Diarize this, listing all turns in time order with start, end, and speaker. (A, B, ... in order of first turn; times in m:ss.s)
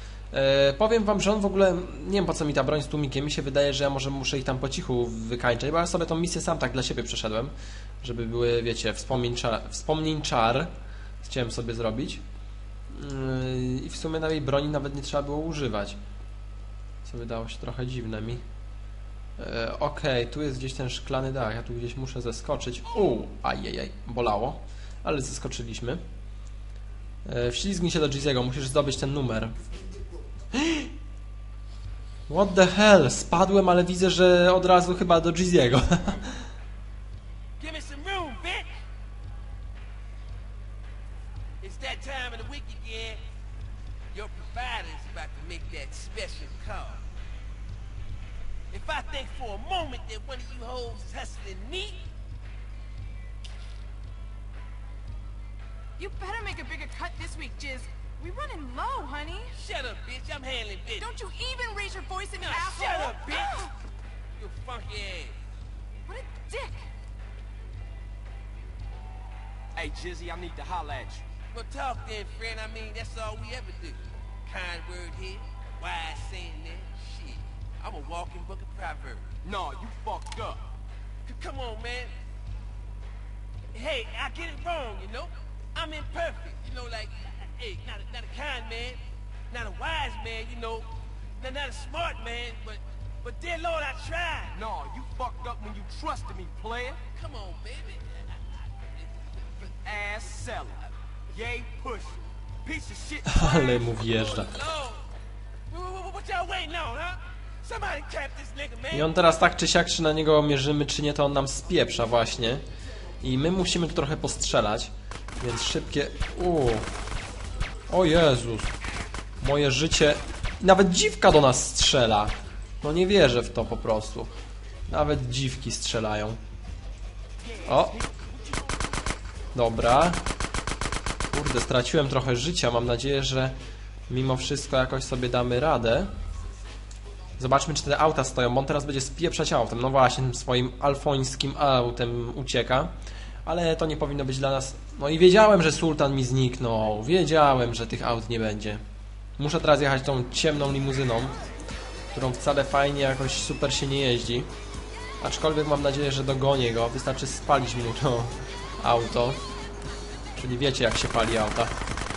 0:00.3-0:10.7 A
0:11.2-0:12.2 A
0:12.9-0:16.0 A
0:17.0-0:18.4 A
0:19.4-0:26.0 A
0:27.2-0:29.6 A
0:30.5-0:30.9 A
0:32.3-0:36.4 A
0:37.6-0:38.7 B
0:41.6-0:43.2 B
0:44.1-0:47.0 B
0:48.7-0:52.1 B
0:56.0-0:59.5 C
0:59.5-1:01.1 B
1:01.0-1:03.7 C
1:02.4-1:03.7 B
1:04.4-1:05.4 B
1:06.1-1:06.8 C
1:09.7-1:11.2 D
1:11.5-1:19.3 B
1:19.4-1:20.6 D
1:21.2-1:22.1 B
1:23.7-1:34.6 B
1:34.5-1:37.0 D
1:37.1-1:39.7 B
1:39.8-1:43.5 D
1:43.2-1:44.5 A
1:44.0-1:45.1 B
1:45.7-1:49.1 B
1:48.9-1:52.6 A
1:53.2-1:56.9 A
1:57.9-1:58.7 A
1:59.4-2:04.3 A
2:04.9-2:06.4 A
2:07.4-2:08.8 D
2:07.6-2:08.0 A
2:09.5-2:10.2 A
2:11.3-2:13.6 A
2:14.1-2:16.1 A
2:17.4-2:22.9 A
2:23.4-2:28.8 A
2:29.4-2:31.4 A
2:32.1-2:34.5 A
2:35.2-2:39.4 A
2:40.3-2:41.7 A